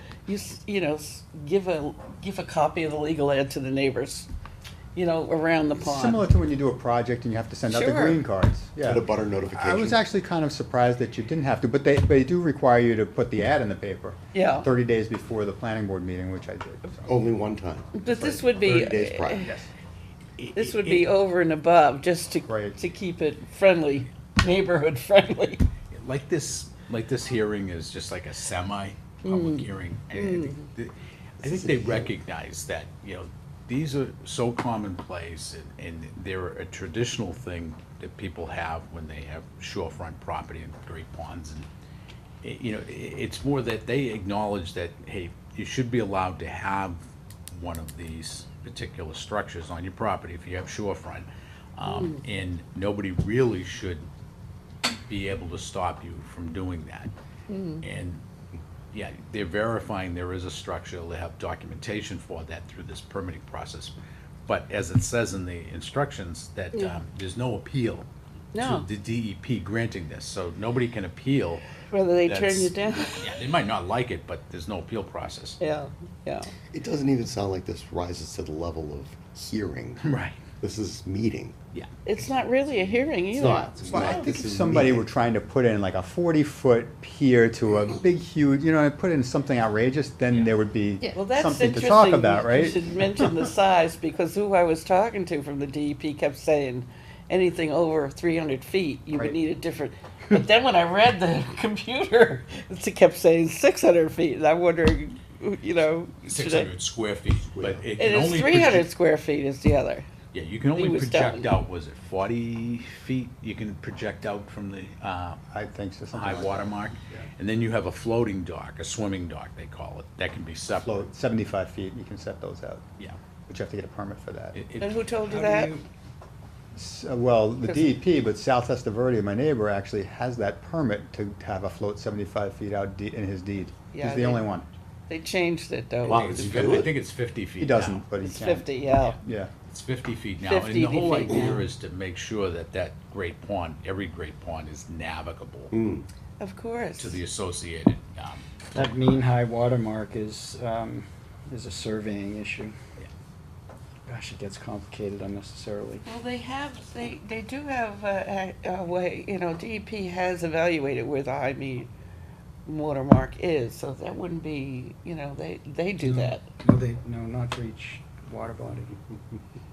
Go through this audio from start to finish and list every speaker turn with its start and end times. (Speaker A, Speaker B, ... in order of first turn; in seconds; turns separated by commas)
Speaker A: 0.3-4.3, Speaker A: 4.9-6.3, Speaker B: 5.8-17.2, Speaker A: 7.7-8.2, Speaker C: 8.8-10.0, Speaker A: 14.3-14.7, Speaker C: 17.0-19.5, Speaker A: 17.9-19.5, Speaker B: 19.4-19.7, Speaker D: 20.4-21.1, Speaker A: 20.5-25.6, Speaker B: 22.5-22.8, Speaker D: 25.9-41.7, Speaker A: 29.2-30.6, Speaker D: 42.4-54.1, Speaker D: 55.1-57.1, Speaker A: 57.5-57.8, Speaker D: 57.8-58.2, Speaker D: 58.9-63.9, Speaker D: 64.5-71.7, Speaker A: 68.5-68.9, Speaker A: 71.9-73.3, Speaker D: 72.2-75.6, Speaker A: 75.6-76.5, Speaker C: 76.7-80.1, Speaker D: 80.0-80.4, Speaker C: 80.6-81.5, Speaker A: 82.0-84.2, Speaker C: 83.3-85.1, Speaker B: 83.9-93.2, Speaker A: 91.1-106.7, Speaker D: 106.3-108.9, Speaker C: 107.5-107.9, Speaker A: 108.0-110.1, Speaker D: 110.3-115.4, Speaker A: 110.7-111.5, Speaker B: 115.5-117.3, Speaker D: 116.1-121.1, Speaker B: 120.8-122.8, Speaker B: 123.5-124.6, Speaker D: 124.5-125.0, Speaker A: 124.8-125.8, Speaker E: 125.3-125.8, Speaker B: 126.8-134.7, Speaker A: 127.7-127.9, Speaker A: 133.9-134.5, Speaker A: 135.1-136.9, Speaker C: 136.0-136.9, Speaker D: 136.0-138.0, Speaker B: 137.6-138.7, Speaker A: 138.2-139.2, Speaker D: 139.0-145.7, Speaker B: 139.2-139.5, Speaker A: 140.4-141.6, Speaker C: 145.7-146.1, Speaker A: 146.4-147.2, Speaker D: 147.0-149.0, Speaker E: 148.7-152.7, Speaker E: 154.1-156.0, Speaker A: 156.1-161.9, Speaker A: 162.7-166.5, Speaker E: 166.0-169.4